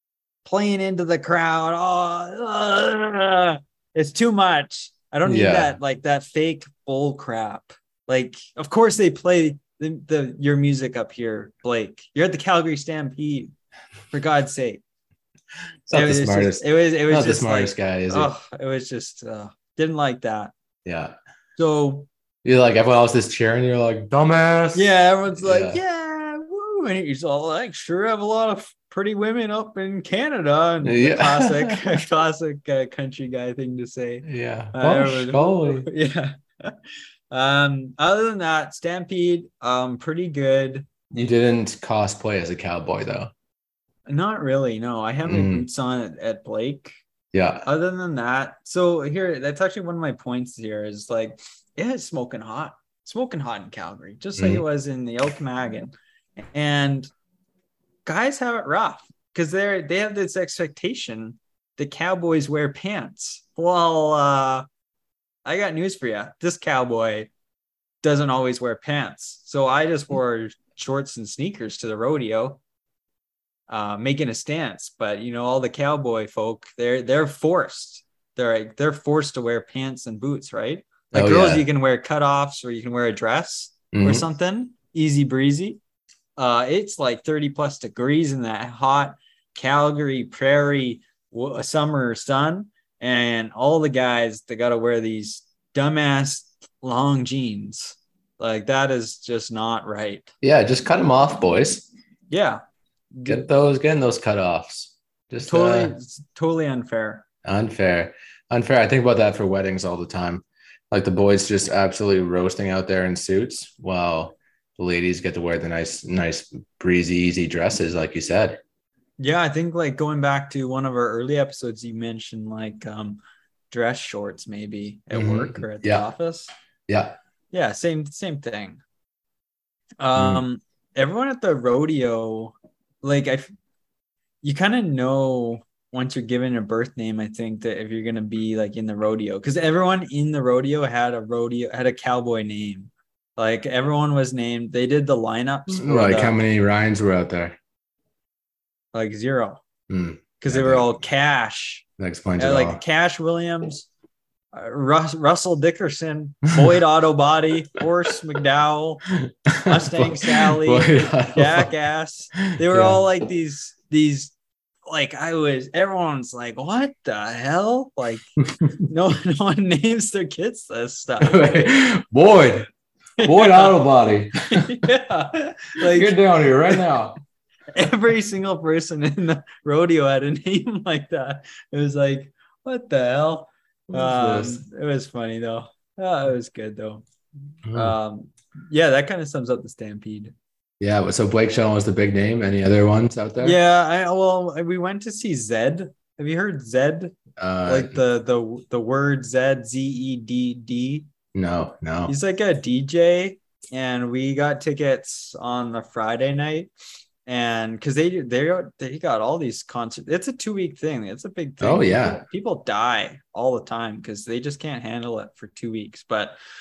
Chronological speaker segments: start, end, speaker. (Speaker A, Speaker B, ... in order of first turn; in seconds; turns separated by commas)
Speaker A: 0.4-13.5, Speaker B: 5.2-5.7, Speaker A: 14.1-14.8, Speaker B: 15.9-18.3, Speaker A: 15.9-20.5, Speaker B: 20.8-21.1, Speaker A: 21.6-22.1, Speaker B: 22.4-25.8, Speaker A: 24.7-36.8, Speaker B: 30.8-32.0, Speaker B: 34.2-35.9, Speaker A: 37.3-40.9, Speaker B: 41.1-43.3, Speaker A: 44.1-47.0, Speaker B: 45.2-45.6, Speaker B: 47.3-47.7, Speaker A: 47.6-55.9, Speaker B: 54.4-54.6, Speaker A: 56.5-57.1, Speaker A: 58.0-64.7, Speaker A: 65.4-67.3, Speaker A: 68.0-72.6, Speaker A: 73.7-85.8, Speaker B: 81.1-81.6, Speaker B: 83.9-84.3, Speaker A: 86.4-100.3, Speaker B: 100.4-101.9, Speaker A: 102.3-102.6, Speaker A: 103.2-103.5, Speaker B: 103.2-105.9, Speaker A: 105.5-107.2, Speaker B: 107.4-118.6, Speaker A: 119.2-126.5, Speaker B: 125.1-126.1, Speaker B: 126.9-127.2, Speaker A: 127.5-128.8, Speaker A: 130.0-133.5, Speaker B: 130.1-130.4, Speaker A: 134.4-146.3, Speaker B: 145.7-147.6, Speaker A: 148.9-149.6, Speaker B: 149.9-150.9, Speaker A: 150.4-151.8, Speaker B: 152.0-152.8, Speaker A: 152.4-153.9, Speaker A: 154.5-159.0, Speaker B: 159.1-161.7, Speaker A: 159.7-164.3, Speaker B: 162.5-163.0, Speaker A: 164.9-171.7, Speaker B: 171.2-172.7, Speaker A: 173.2-173.7, Speaker B: 173.2-174.7, Speaker A: 174.5-176.2, Speaker B: 175.8-177.2, Speaker A: 177.7-187.0, Speaker B: 183.9-184.6, Speaker B: 187.7-187.9, Speaker A: 187.7-190.3, Speaker B: 190.8-193.6, Speaker A: 193.4-197.1, Speaker B: 197.4-198.0, Speaker A: 197.7-201.1, Speaker B: 201.3-202.1, Speaker A: 202.1-206.7, Speaker A: 207.2-216.3, Speaker B: 211.6-212.2